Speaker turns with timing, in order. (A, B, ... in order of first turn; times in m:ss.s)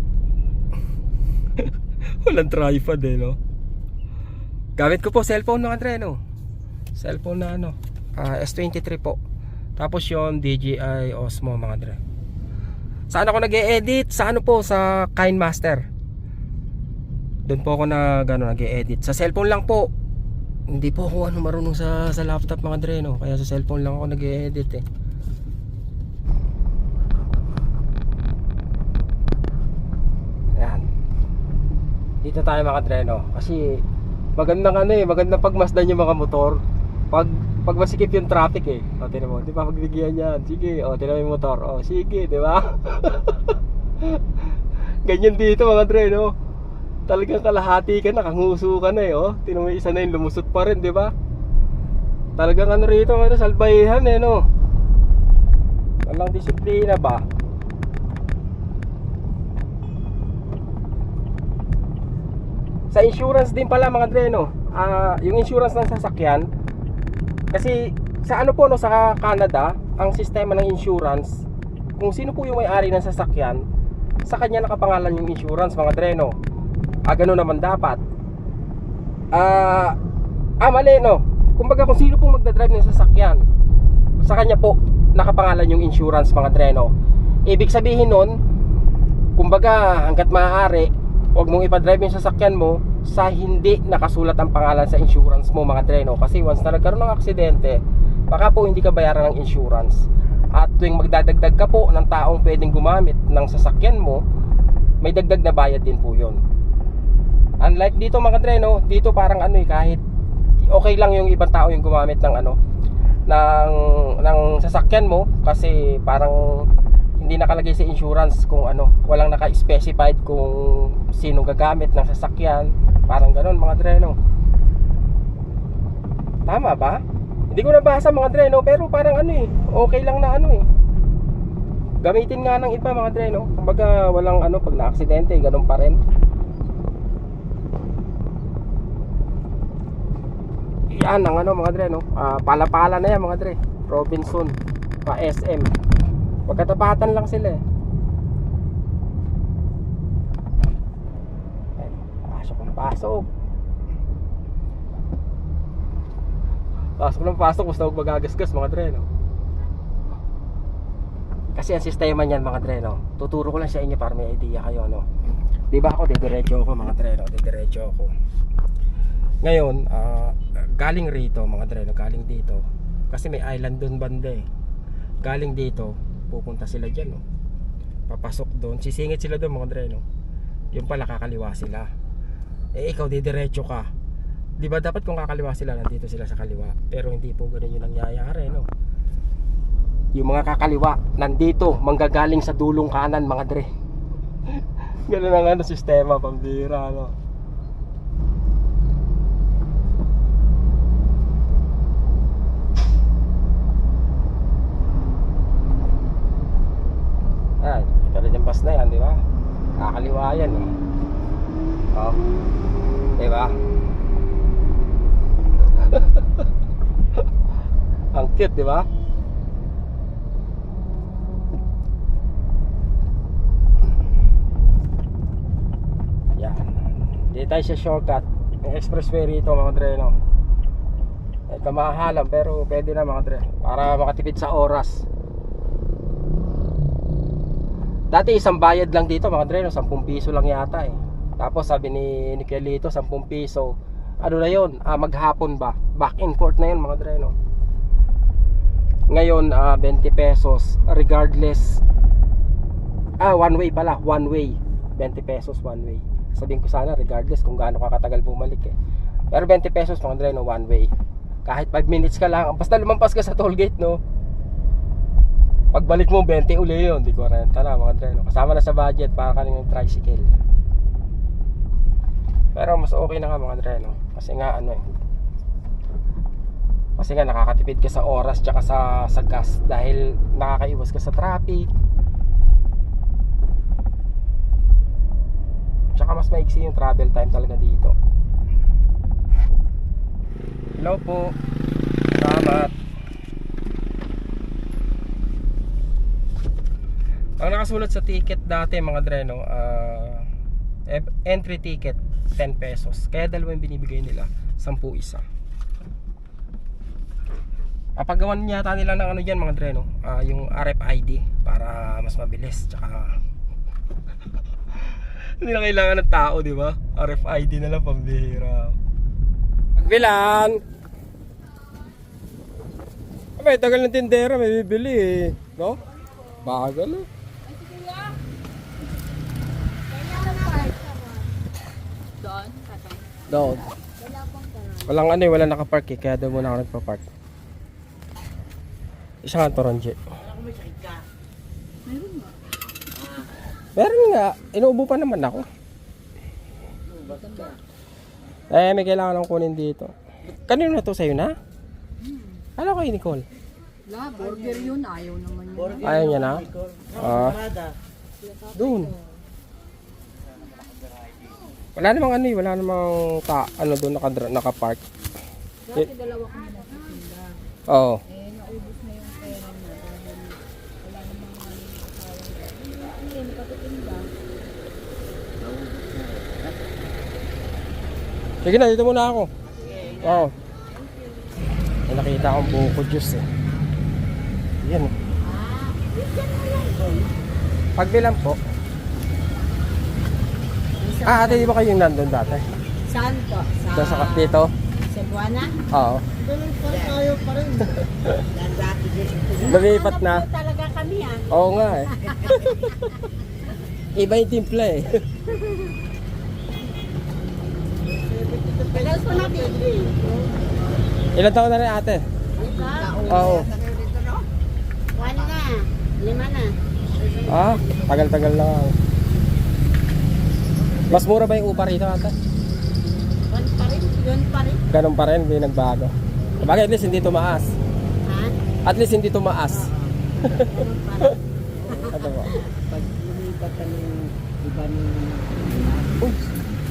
0:02.2-0:03.4 A
0:04.8-0:06.2 A
0:07.0-0:09.2 A
0:09.8-0:12.0 A
0:13.1-0:15.9 A
0:17.5-0:19.9 A
0:20.7-0:24.8 A
0:30.6-0:30.8 A
0:32.2-0:33.8 A
0:34.4-0:43.5 A
0:45.0-0:46.3 A
0:47.1-0:51.1 A
0:52.4-0:54.4 A
0:56.1-0:57.2 A
1:02.9-1:06.5 A
1:07.5-1:11.4 A
1:12.0-1:13.6 A
1:14.3-1:16.4 A
1:17.1-1:18.0 A
1:19.4-1:20.0 A
1:20.6-1:23.4 A
1:24.2-1:26.9 A
1:27.5-1:28.4 A
1:29.4-1:37.8 A
1:38.3-1:44.2 A
1:45.0-1:46.4 A
1:47.6-1:50.0 A
1:50.7-1:52.6 A
1:53.3-1:56.6 A
1:57.2-2:04.1 A
2:06.5-2:10.6 A
2:12.0-2:16.0 A
2:20.9-2:24.5 A
2:25.1-2:25.7 A
2:26.5-2:27.6 A
2:31.8-2:33.3 A
2:37.0-2:39.1 A
2:41.6-2:45.0 A
2:45.7-2:48.1 A
2:49.4-2:54.5 A
2:55.2-2:57.2 A
2:58.1-3:00.0 A
3:00.7-3:01.9 A
3:02.8-3:03.9 A
3:04.6-3:08.7 A
3:10.1-3:13.7 A
3:15.1-3:17.1 A
3:27.6-3:29.2 A
3:29.8-3:30.7 A
3:31.9-3:32.2 A
3:33.2-3:33.6 A
3:35.8-3:36.2 A
3:38.1-3:38.8 A
3:46.4-3:46.7 A
3:47.3-3:50.1 A
3:51.5-3:55.0 A
3:58.1-4:07.4 A
4:09.1-4:11.8 A
4:13.2-4:18.7 A
4:19.3-4:20.9 A
4:21.4-4:24.0 A
4:25.7-4:30.3 A
4:32.6-4:34.8 A
4:37.0-4:41.7 A
4:46.0-4:48.0 A
4:50.8-4:51.4 A
4:52.1-4:52.7 A
4:57.4-5:00.3 A
5:00.9-5:05.2 A
5:08.0-5:13.1 A
5:15.4-5:18.8 A
5:19.8-5:20.6 A
5:23.4-5:25.8 A
5:26.4-5:27.1 A
5:27.4-5:28.2 B
5:30.0-5:31.1 B
5:30.1-5:30.7 C
5:32.2-5:33.1 B
5:33.3-5:33.6 A
5:34.0-5:34.9 B
5:34.9-5:37.0 A
5:39.2-5:40.0 A
5:41.8-5:42.3 B
5:43.8-5:45.5 A
5:47.0-5:47.6 B
5:48.5-5:49.9 A
5:50.5-5:51.4 A
5:52.0-5:52.4 B
5:52.6-5:53.2 A
5:53.9-5:56.4 B
5:55.8-5:57.4 A
5:58.2-5:59.0 B
5:58.6-5:58.9 A
6:01.8-6:04.8 A
6:05.6-6:07.4 B
6:07.7-6:08.0 A
6:08.1-6:14.1 B
6:18.4-6:19.3 A
6:19.6-6:20.0 C
6:20.0-6:20.3 A
6:21.9-6:23.2 A
6:24.6-6:24.9 A
6:25.2-6:27.0 C
6:27.8-6:28.4 A
6:30.8-6:31.6 C
6:31.0-6:32.4 A
6:32.9-6:35.5 C
6:33.7-6:34.5 A
6:35.7-6:36.0 A
6:36.2-6:37.7 C
6:37.8-6:38.2 A
6:38.3-6:42.8 C
6:39.4-6:40.3 A
6:41.3-6:42.9 A
6:44.0-6:45.1 A
6:48.5-6:50.1 C
6:51.1-6:52.0 A
6:52.4-6:54.0 C
6:53.1-6:53.5 A
6:54.9-6:56.5 C
6:57.3-6:58.7 A
7:00.9-7:02.1 A
7:03.3-7:04.6 C
7:04.7-7:07.5 A
7:08.0-7:08.3 C
7:08.6-7:09.7 A
7:10.2-7:11.1 A
7:10.4-7:13.8 C
7:11.8-7:12.4 A
7:14.5-7:15.7 C
7:16.0-7:16.3 A